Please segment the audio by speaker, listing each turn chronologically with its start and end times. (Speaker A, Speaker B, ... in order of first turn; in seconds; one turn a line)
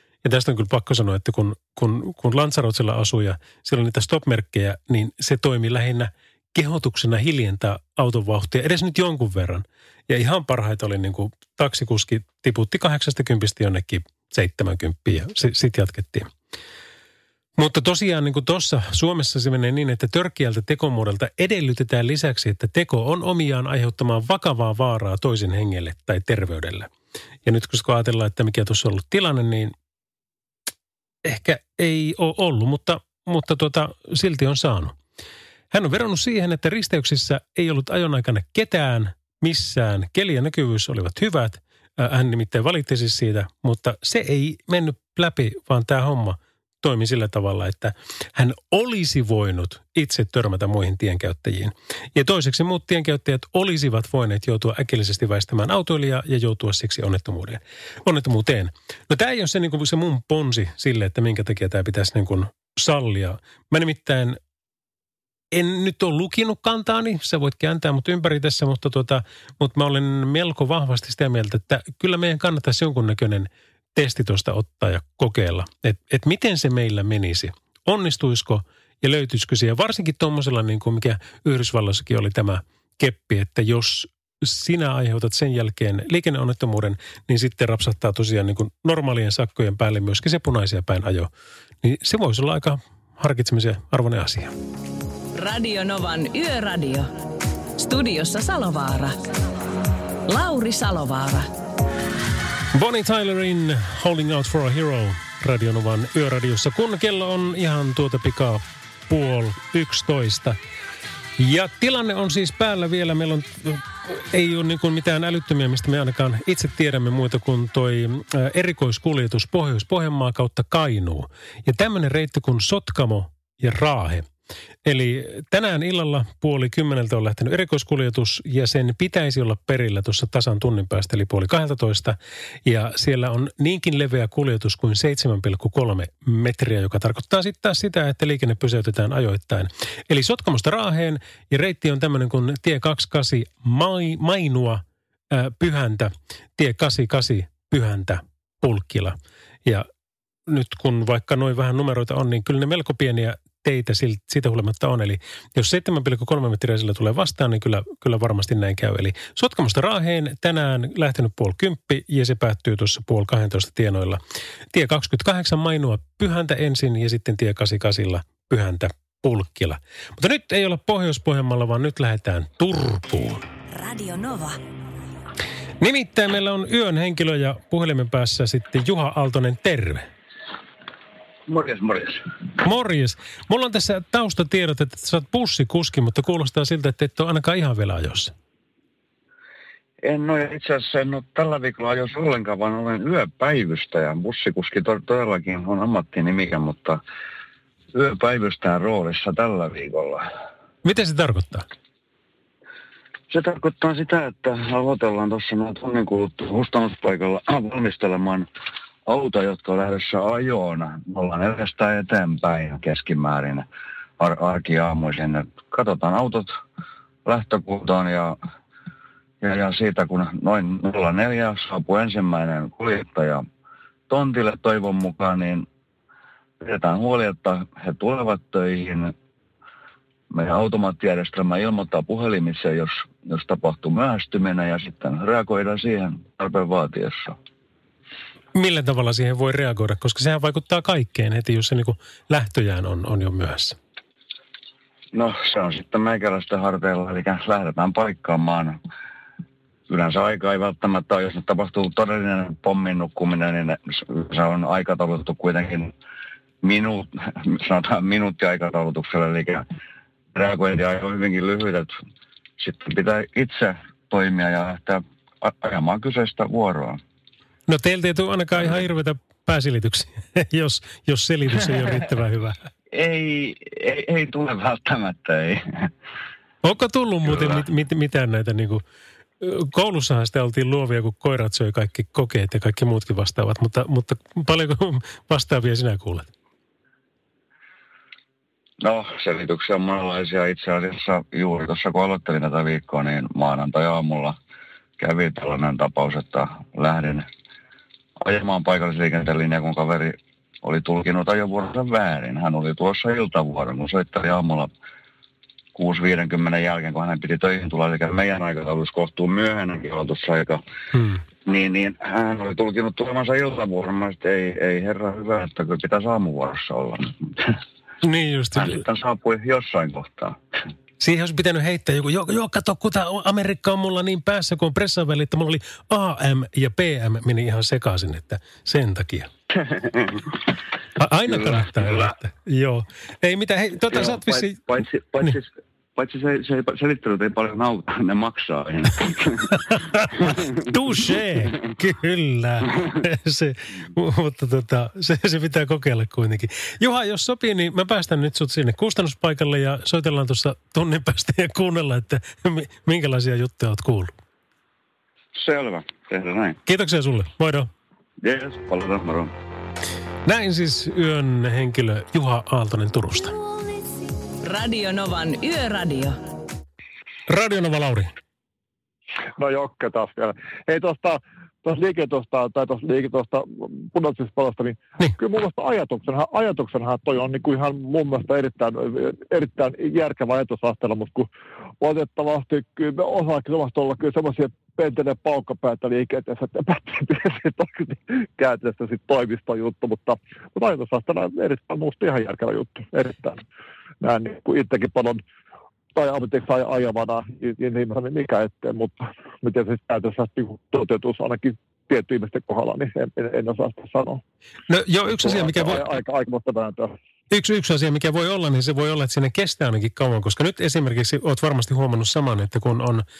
Speaker A: 0.2-16.3
Speaker A: 17.6-26.9
Speaker A: 27.4-29.7
Speaker A: 31.2-35.0
Speaker A: 35.7-64.4
Speaker A: 65.5-91.3
Speaker A: 91.8-94.5
Speaker B: 95.3-97.1
Speaker B: 97.8-99.2
Speaker B: 100.3-101.5
Speaker A: 102.7-110.6
Speaker A: 111.4-124.2
Speaker A: 124.8-149.9
Speaker A: 150.5-164.2
Speaker A: 164.7-173.4
Speaker B: 173.7-174.6
Speaker A: 175.8-180.1
Speaker C: 181.5-182.2
Speaker A: 182.6-188.3
Speaker C: 190.0-197.0
Speaker C: 197.9-200.2
Speaker A: 200.8-201.6
Speaker C: 203.3-208.5
Speaker C: 209.1-213.7
Speaker C: 214.2-216.6
Speaker C: 217.2-218.4
Speaker C: 219.4-223.4
Speaker C: 224.1-225.7
Speaker C: 226.6-229.1
Speaker C: 230.3-237.4
Speaker A: 238.5-243.8
Speaker C: 245.1-248.8
Speaker C: 249.9-255.9
Speaker C: 256.6-259.6
Speaker C: 260.3-262.0
Speaker C: 262.6-267.0
Speaker A: 267.7-272.6
Speaker C: 272.9-275.9
Speaker A: 276.6-278.8
Speaker A: 279.4-286.3
Speaker C: 288.8-294.4
Speaker C: 295.0-297.3
Speaker C: 298.2-304.7
Speaker C: 305.7-310.6
Speaker A: 310.9-311.2
Speaker C: 311.4-317.5
Speaker A: 318.0-318.8
Speaker C: 318.5-320.4
Speaker A: 321.0-329.3
Speaker C: 329.7-330.2
Speaker A: 331.0-334.6
Speaker C: 331.3-332.1
Speaker C: 333.9-340.5
Speaker A: 339.5-354.1
Speaker C: 355.3-356.6
Speaker A: 356.6-357.7
Speaker C: 358.2-359.3
Speaker A: 360.2-363.3
Speaker B: 364.4-366.2
Speaker A: 367.3-368.1
Speaker D: 369.4-381.3
Speaker D: 381.8-393.4
Speaker D: 394.0-395.2
Speaker D: 395.9-404.2
Speaker A: 404.7-405.8
Speaker D: 405.2-406.9
Speaker A: 407.3-413.0